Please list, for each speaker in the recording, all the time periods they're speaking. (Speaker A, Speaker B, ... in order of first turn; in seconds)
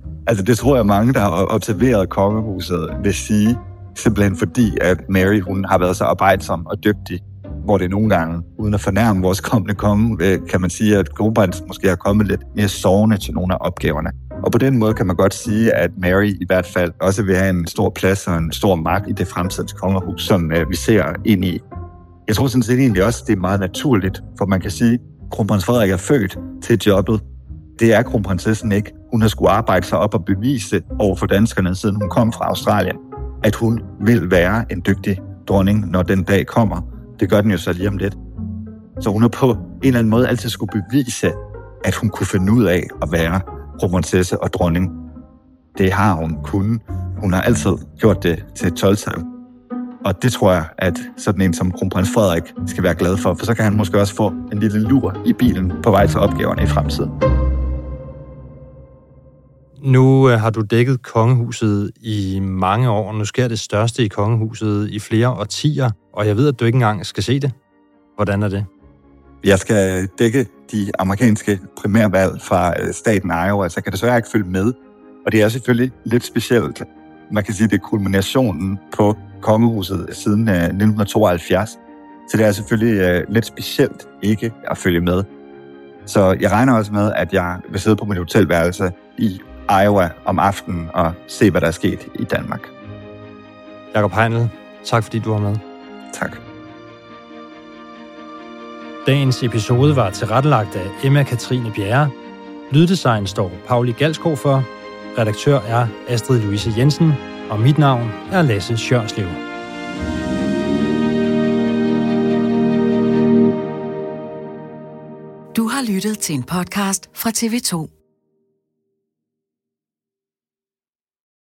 Speaker A: 0.3-21.6, 22.3-27.2, 27.8-38.2, 39.0-45.0, 45.8-49.3, 50.0-57.1, 69.4-85.3, 86.1-92.7, 96.1-96.4
Speaker B: 59.8-67.5, 68.2-68.7, 93.9-95.6, 99.0-102.1, 102.7-109.4
Speaker C: 115.5-117.9